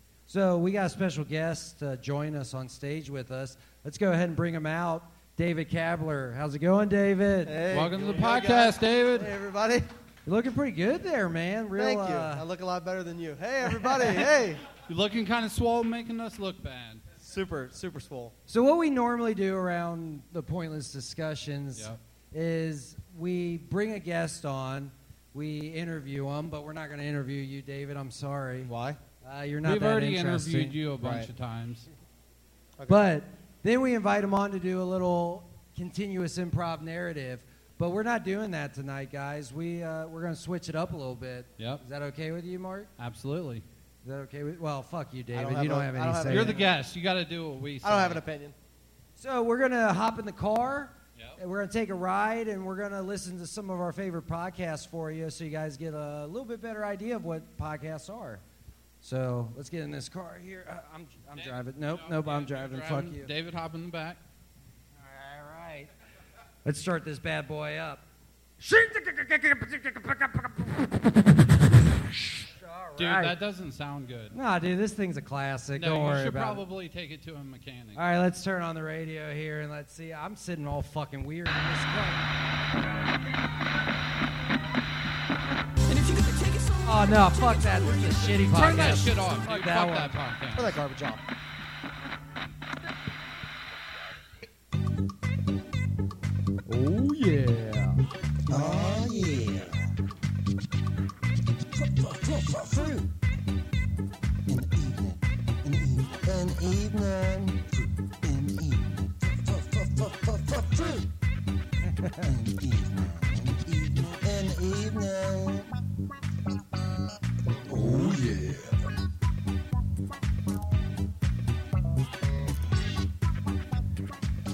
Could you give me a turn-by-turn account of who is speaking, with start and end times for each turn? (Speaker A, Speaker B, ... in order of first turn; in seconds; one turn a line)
Speaker A: 0.3-7.6
Speaker B: 7.5-9.9
Speaker C: 7.7-9.3
Speaker A: 10.3-12.5
Speaker B: 11.8-14.6
Speaker C: 14.8-17.0
Speaker B: 17.2-18.4
Speaker A: 18.5-30.9
Speaker C: 21.8-22.0
Speaker B: 28.7-29.0
Speaker C: 29.6-31.9
Speaker B: 31.0-31.3
Speaker B: 32.8-33.1
Speaker A: 32.9-42.9
Speaker C: 41.6-41.8
Speaker C: 43.0-43.6
Speaker A: 44.0-46.6
Speaker B: 45.3-46.7
Speaker C: 46.3-48.2
Speaker B: 47.8-48.5
Speaker A: 49.2-58.4
Speaker A: 59.0-63.3
Speaker C: 61.4-64.2
Speaker A: 65.0-65.9
Speaker A: 66.7-68.0
Speaker A: 68.6-70.9
Speaker A: 72.4-73.4
Speaker C: 73.0-74.4
Speaker A: 74.3-76.7
Speaker C: 75.8-78.0
Speaker A: 78.0-82.2
Speaker D: 85.9-88.3
Speaker A: 86.8-90.2
Speaker C: 88.2-90.8
Speaker B: 90.6-91.2
Speaker A: 96.7-99.7
Speaker B: 98.5-99.0
Speaker A: 102.7-103.0
Speaker A: 111.9-112.4